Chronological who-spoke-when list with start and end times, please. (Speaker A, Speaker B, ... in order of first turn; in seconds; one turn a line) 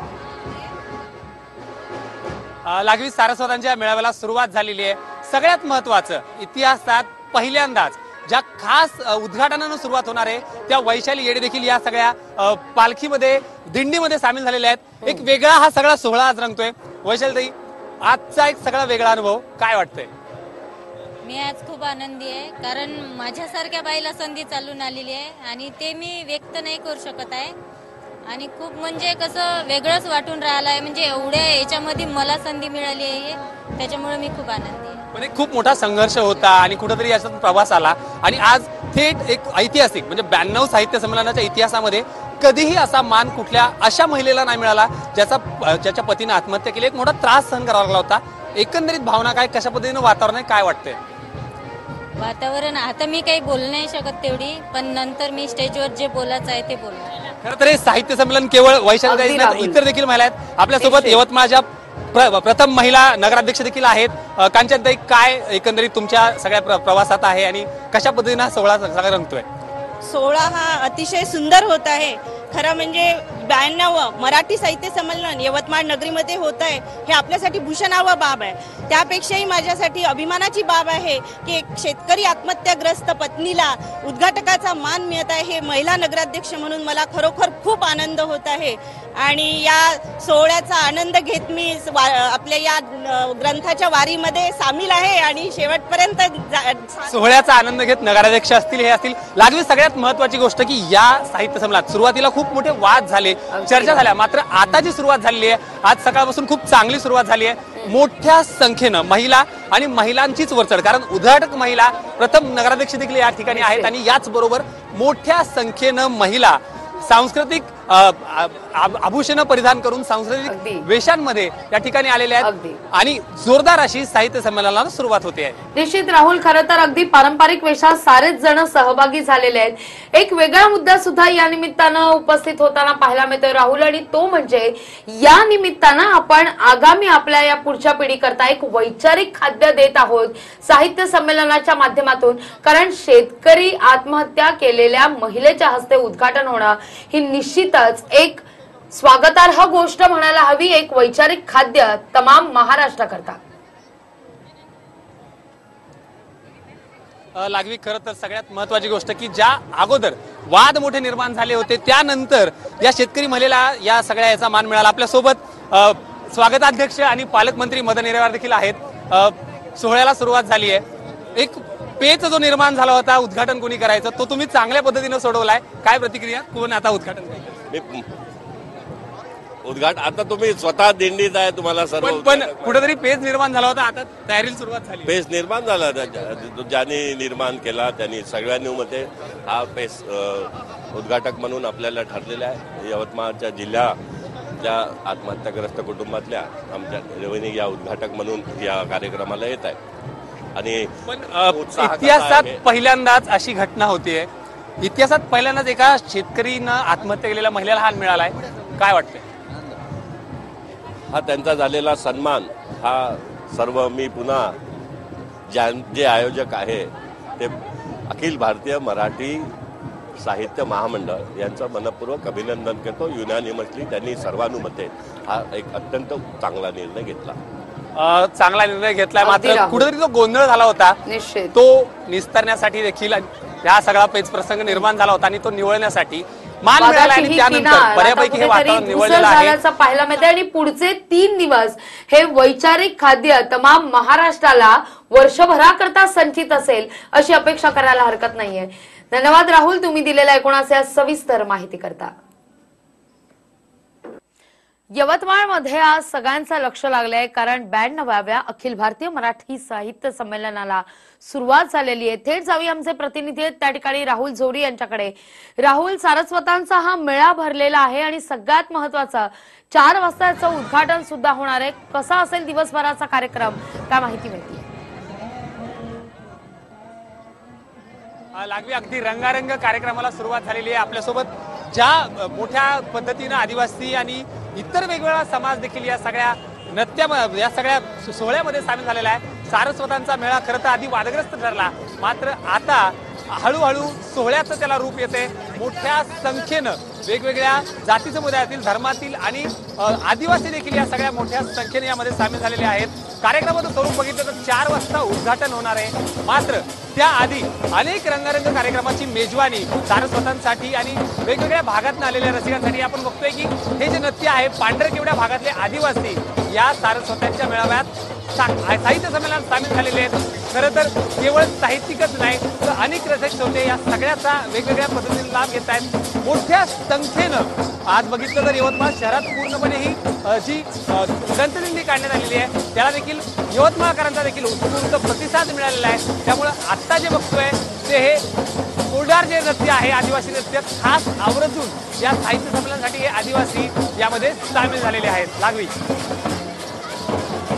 Speaker A: 2.6-20.1
Speaker B: 21.2-27.5
Speaker B: 28.3-35.0
Speaker A: 35.1-51.0
Speaker B: 52.2-57.1
Speaker A: 57.4-69.4
Speaker C: 59.0-59.8
Speaker C: 60.8-61.2
Speaker D: 70.0-97.1
Speaker A: 97.1-125.5
Speaker C: 103.5-104.0
Speaker C: 113.5-113.9
Speaker C: 120.5-120.8
Speaker C: 122.4-122.8
Speaker C: 125.7-153.4
Speaker A: 157.3-170.8
Speaker A: 171.3-177.6
Speaker E: 177.7-178.1
Speaker E: 179.6-182.9
Speaker A: 182.0-185.1
Speaker E: 185.1-193.9
Speaker E: 194.6-199.8
Speaker E: 200.5-202.6
Speaker A: 201.1-204.3
Speaker A: 204.8-209.3
Speaker E: 211.1-214.6
Speaker E: 215.5-217.6
Speaker E: 218.1-219.5
Speaker E: 220.2-227.4
Speaker A: 227.9-231.0
Speaker C: 229.2-229.9
Speaker C: 231.1-231.5
Speaker A: 231.5-239.6
Speaker C: 236.8-252.1
Speaker C: 254.9-274.7
Speaker A: 278.3-338.2
Speaker A: 338.9-345.7